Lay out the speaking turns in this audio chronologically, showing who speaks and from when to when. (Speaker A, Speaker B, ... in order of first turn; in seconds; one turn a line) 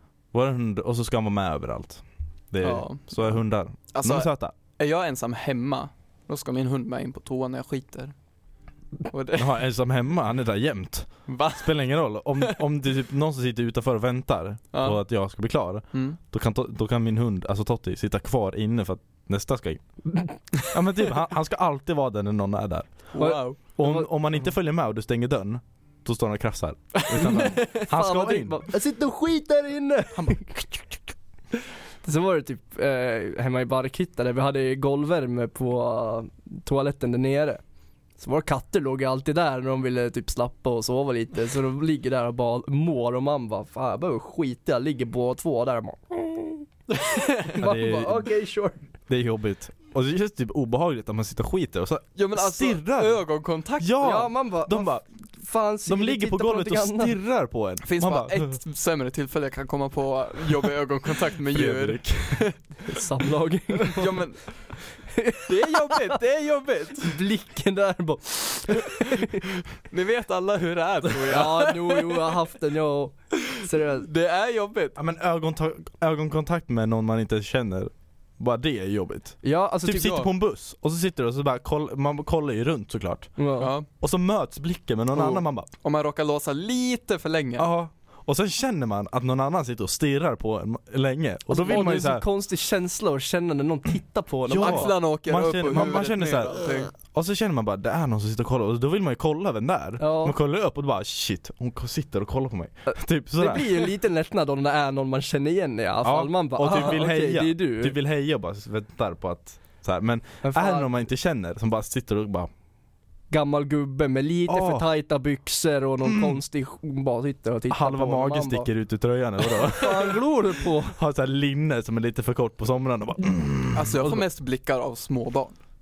Speaker A: 0.3-4.5
Speaker B: 2.6-8.1
Speaker B: 9.1-9.5
Speaker A: 9.4-20.0
Speaker B: 11.3-11.8
Speaker B: 14.7-15.0
Speaker B: 15.9-16.2
Speaker A: 20.5-28.6
Speaker B: 23.1-23.6
Speaker C: 23.2-24.1
Speaker B: 26.9-27.9
Speaker C: 27.1-31.0
Speaker C: 32.0-37.6
Speaker C: 38.2-46.7
Speaker B: 46.9-47.5
Speaker C: 47.5-48.8
Speaker A: 47.6-48.3
Speaker A: 49.1-53.2
Speaker B: 52.1-54.0
Speaker A: 53.8-55.0
Speaker C: 54.0-57.2
Speaker A: 55.9-58.5
Speaker B: 57.8-62.6
Speaker A: 61.5-62.5
Speaker C: 62.9-64.2
Speaker B: 63.9-64.7
Speaker C: 65.1-66.1
Speaker B: 65.5-67.2
Speaker C: 67.0-69.4
Speaker B: 69.8-72.3
Speaker C: 71.2-74.1
Speaker B: 74.0-75.0
Speaker A: 75.0-85.7
Speaker C: 79.4-80.2
Speaker B: 80.0-80.3
Speaker C: 83.4-83.7
Speaker B: 83.6-83.9
Speaker B: 85.1-87.7
Speaker A: 87.6-92.2
Speaker C: 91.5-95.0
Speaker A: 94.5-103.8
Speaker B: 94.5-96.9
Speaker C: 100.0-100.3
Speaker C: 102.9-107.9
Speaker A: 106.0-112.5
Speaker C: 110.4-110.9
Speaker C: 113.3-118.7
Speaker A: 114.5-114.8
Speaker A: 116.0-116.4
Speaker A: 117.7-120.2
Speaker C: 119.5-121.0
Speaker A: 120.9-124.2
Speaker B: 123.7-125.6